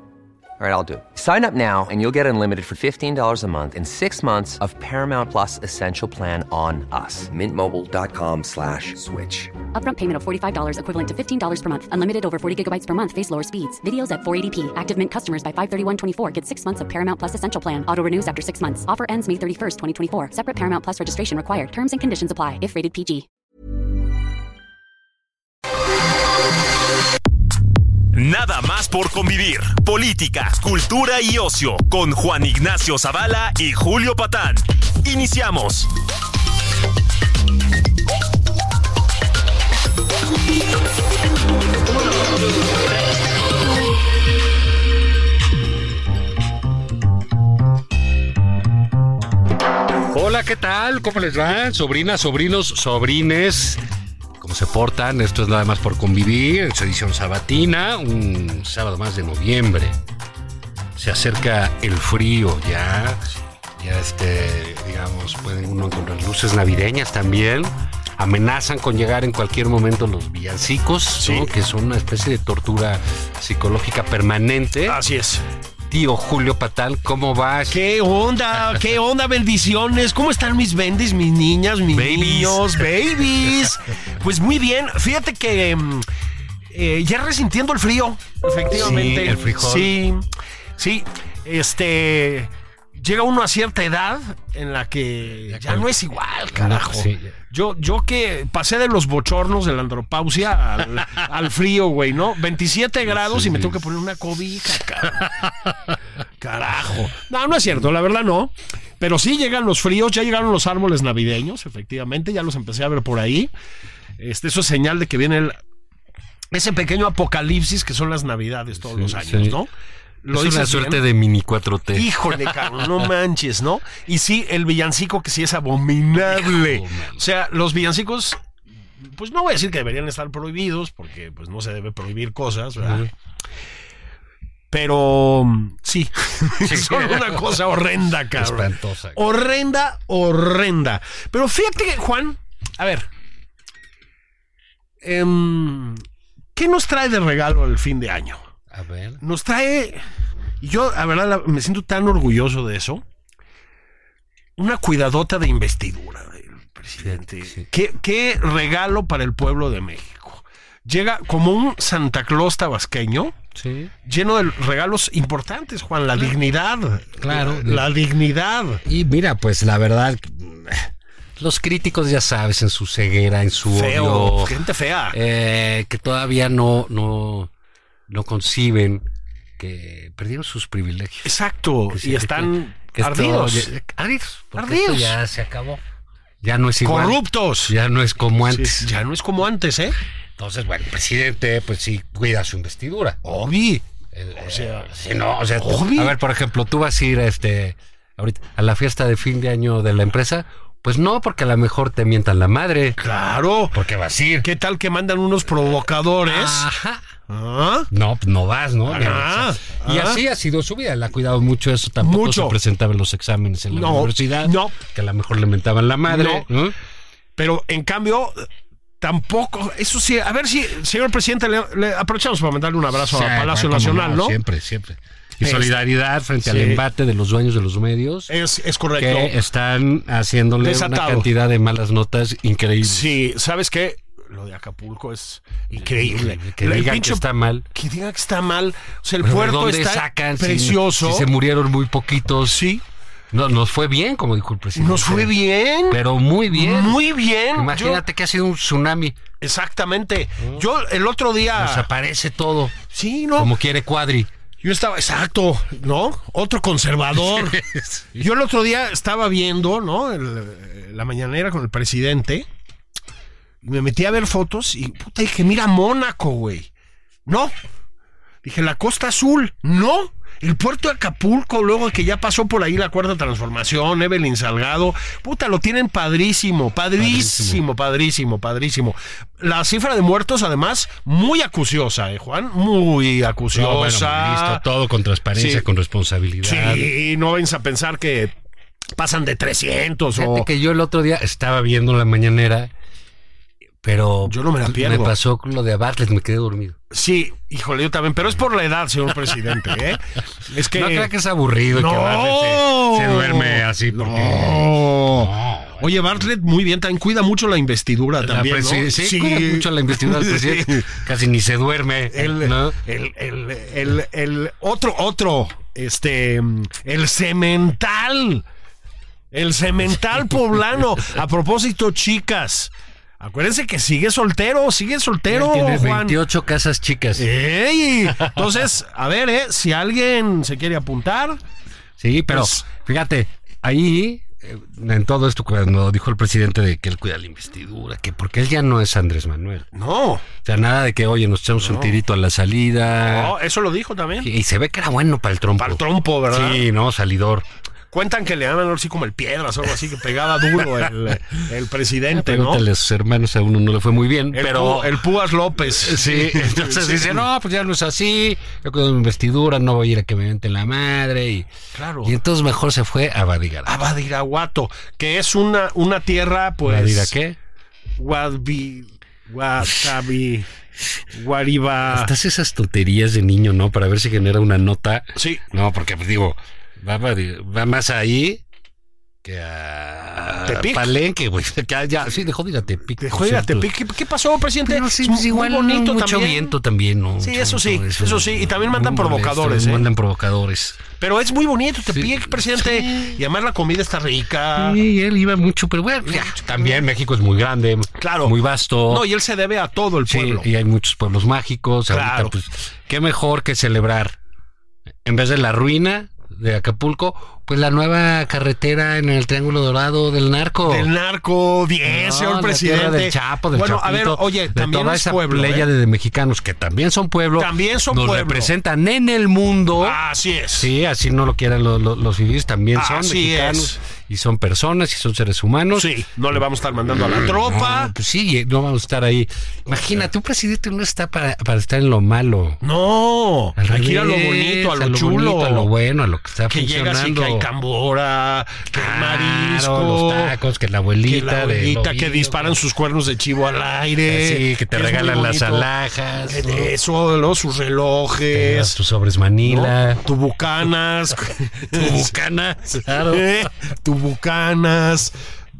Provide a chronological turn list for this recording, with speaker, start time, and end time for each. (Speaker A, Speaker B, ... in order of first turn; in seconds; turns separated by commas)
Speaker A: 0.6-9.5, Speaker B: 9.7-23.3, Speaker C: 28.1-35.9, Speaker D: 50.0-53.8, Speaker D: 54.4-60.0, Speaker D: 61.0-63.2, Speaker D: 63.8-75.0, Speaker E: 71.2-71.5, Speaker E: 74.9-75.4, Speaker D: 75.9-77.8, Speaker E: 77.7-86.1, Speaker D: 81.9-82.9, Speaker E: 86.7-90.3, Speaker D: 88.7-90.0, Speaker E: 90.8-105.3, Speaker D: 95.5-95.9, Speaker D: 96.5-97.3, Speaker D: 103.1-103.8, Speaker E: 106.4-113.5, Speaker E: 114.2-115.6, Speaker E: 116.5-119.7, Speaker D: 118.8-119.6, Speaker E: 120.2-121.0, Speaker D: 120.3-122.6, Speaker E: 121.9-128.4, Speaker D: 126.2-127.2, Speaker E: 129.0-133.1, Speaker D: 132.8-133.1, Speaker E: 134.7-143.1, Speaker D: 136.6-137.6, Speaker D: 138.3-139.3, Speaker E: 145.0-146.0, Speaker E: 146.6-148.4, Speaker D: 148.7-149.2, Speaker E: 149.2-150.0, Speaker E: 150.6-153.0, Speaker E: 154.6-163.4, Speaker D: 157.0-157.7, Speaker D: 163.6-163.9, Speaker E: 164.1-168.8, Speaker D: 167.2-167.9, Speaker D: 168.8-174.6, Speaker E: 173.7-175.2, Speaker D: 175.1-177.5, Speaker D: 178.1-179.1, Speaker D: 179.6-181.4, Speaker E: 181.2-183.8, Speaker D: 181.9-185.8, Speaker E: 184.6-185.2, Speaker D: 186.4-188.9, Speaker E: 186.8-187.7, Speaker E: 188.5-190.0, Speaker D: 190.4-193.2, Speaker E: 193.2-193.8, Speaker D: 194.1-203.0, Speaker E: 194.4-194.9, Speaker E: 195.6-196.2, Speaker E: 203.0-203.8, Speaker D: 203.7-204.5, Speaker E: 204.4-206.7, Speaker D: 206.3-207.0, Speaker E: 207.3-207.9, Speaker D: 207.9-216.8, Speaker E: 208.9-210.2, Speaker E: 212.0-212.6, Speaker E: 213.7-214.8, Speaker E: 216.1-216.5, Speaker E: 217.4-218.5, Speaker E: 219.0-224.4, Speaker D: 223.0-228.3, Speaker E: 225.4-225.8, Speaker E: 226.4-226.8, Speaker E: 228.3-229.4, Speaker D: 228.9-233.2, Speaker E: 230.6-231.3, Speaker E: 232.8-241.3, Speaker D: 235.8-237.7, Speaker D: 239.2-242.6, Speaker E: 242.5-242.8, Speaker D: 243.3-247.0, Speaker E: 244.8-248.0, Speaker D: 247.5-249.2, Speaker E: 249.4-251.9, Speaker D: 251.6-252.8, Speaker E: 252.9-253.5, Speaker D: 253.3-254.3, Speaker E: 254.6-257.6, Speaker D: 257.2-258.2, Speaker E: 258.1-262.5, Speaker E: 263.6-266.7, Speaker E: 267.3-267.5, Speaker E: 268.4-284.6, Speaker D: 277.0-277.6, Speaker D: 283.5-286.9, Speaker E: 285.3-285.6, Speaker E: 286.4-288.3, Speaker E: 289.0-290.5, Speaker D: 290.2-292.7, Speaker D: 293.8-296.8, Speaker E: 294.2-295.1, Speaker E: 296.9-301.1, Speaker D: 300.6-306.3, Speaker E: 301.7-310.9, Speaker D: 308.2-312.8, Speaker E: 312.1-318.4, Speaker E: 319.3-326.2, Speaker D: 325.3-327.3, Speaker E: 327.2-331.4, Speaker D: 328.2-328.5, Speaker D: 332.0-339.7, Speaker E: 332.3-332.6, Speaker E: 339.7-340.2, Speaker D: 340.4-343.4, Speaker E: 341.6-342.0, Speaker E: 343.0-344.3, Speaker D: 344.2-347.4, Speaker E: 345.6-346.7, Speaker E: 347.9-352.6, Speaker D: 352.1-355.0, Speaker E: 354.3-357.2, Speaker D: 355.7-361.5, Speaker E: 361.7-362.1, Speaker D: 362.0-363.8, Speaker E: 363.7-367.1, Speaker D: 366.6-367.4, Speaker E: 368.0-370.5, Speaker E: 371.1-372.1, Speaker D: 371.9-378.4, Speaker E: 375.1-375.4, Speaker D: 379.2-383.7, Speaker E: 380.4-380.9, Speaker E: 383.0-386.5, Speaker D: 384.6-390.8, Speaker E: 387.2-389.9, Speaker E: 391.0-394.8, Speaker D: 391.9-393.2, Speaker D: 394.5-399.1, Speaker E: 396.1-396.8, Speaker E: 398.0-398.4, Speaker E: 398.9-400.5, Speaker D: 400.1-404.2, Speaker E: 401.9-402.3, Speaker D: 405.1-410.9, Speaker E: 410.6-415.7, Speaker D: 411.9-420.0, Speaker E: 417.4-418.5, Speaker E: 419.8-420.7, Speaker D: 420.6-425.9, Speaker E: 422.8-423.8, Speaker E: 425.8-427.9, Speaker D: 426.9-432.6, Speaker E: 432.6-435.7, Speaker D: 433.6-437.5, Speaker E: 436.5-440.4, Speaker D: 438.7-442.6, Speaker E: 441.1-445.7, Speaker D: 444.1-446.7, Speaker E: 446.2-448.8, Speaker D: 448.3-450.0, Speaker E: 449.4-452.1, Speaker D: 451.7-453.5, Speaker E: 452.8-455.1